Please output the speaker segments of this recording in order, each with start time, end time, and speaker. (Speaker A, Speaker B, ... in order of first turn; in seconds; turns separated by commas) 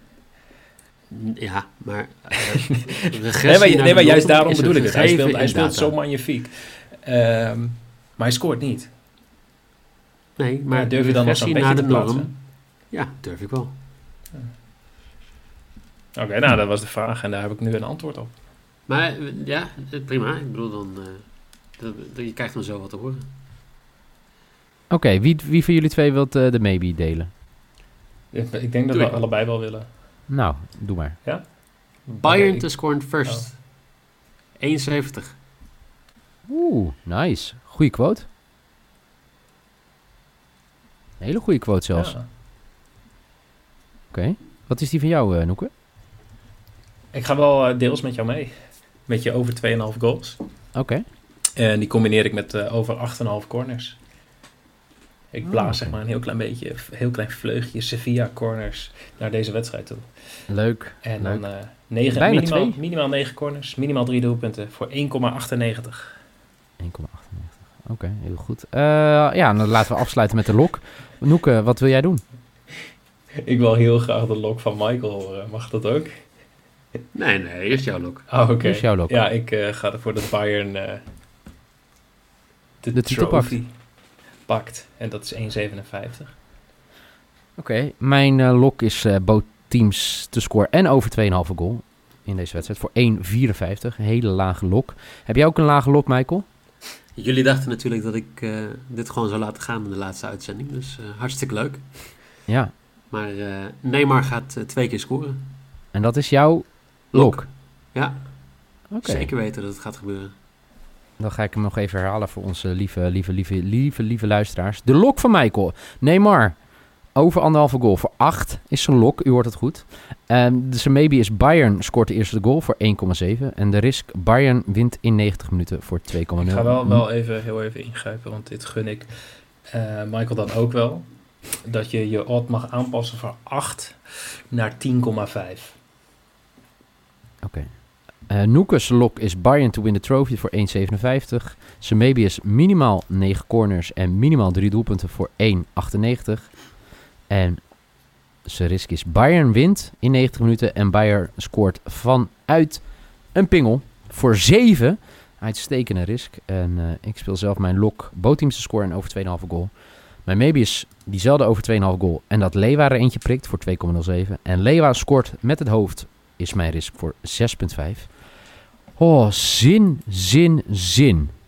Speaker A: 1.1-5.9, Speaker B: 2.7-8.9, Speaker A: 10.4-13.7, Speaker B: 10.7-12.3, Speaker B: 16.1-18.3, Speaker A: 18.9-23.2, Speaker C: 24.9-27.3, Speaker B: 28.3-29.9, Speaker A: 28.9-29.2, Speaker C: 30.3-31.2, Speaker B: 31.2-33.5, Speaker A: 32.2-33.5, Speaker A: 34.6-35.4, Speaker C: 36.5-38.2, Speaker C: 41.2-42.1, Speaker B: 41.9-42.2, Speaker C: 44.1-45.7, Speaker B: 47.1-48.5, Speaker B: 49.1-50.4, Speaker C: 50.7-51.0, Speaker B: 51.5-54.0, Speaker B: 55.3-60.1, Speaker C: 55.4-56.0, Speaker C: 60.5-61.4, Speaker B: 61.0-66.1, Speaker C: 62.1-62.8, Speaker C: 66.8-72.2, Speaker B: 73.4-76.1, Speaker A: 77.1-78.3, Speaker B: 78.3-81.0, Speaker C: 78.6-79.2, Speaker B: 82.8-83.7, Speaker C: 82.9-83.5, Speaker B: 84.5-86.3, Speaker C: 87.6-96.4, Speaker A: 97.2-101.9, Speaker C: 102.5-102.7, Speaker A: 103.1-105.4, Speaker C: 105.9-107.5, Speaker A: 107.1-108.2, Speaker C: 108.9-109.3, Speaker A: 109.0-110.3, Speaker C: 111.2-116.6, Speaker C: 117.1-127.0, Speaker B: 126.4-129.1, Speaker B: 129.7-131.1, Speaker B: 131.6-134.0, Speaker B: 134.5-135.8, Speaker C: 137.4-137.7, Speaker C: 138.3-146.6, Speaker C: 147.3-147.7, Speaker C: 148.4-159.7, Speaker C: 160.2-168.1, Speaker C: 169.0-171.3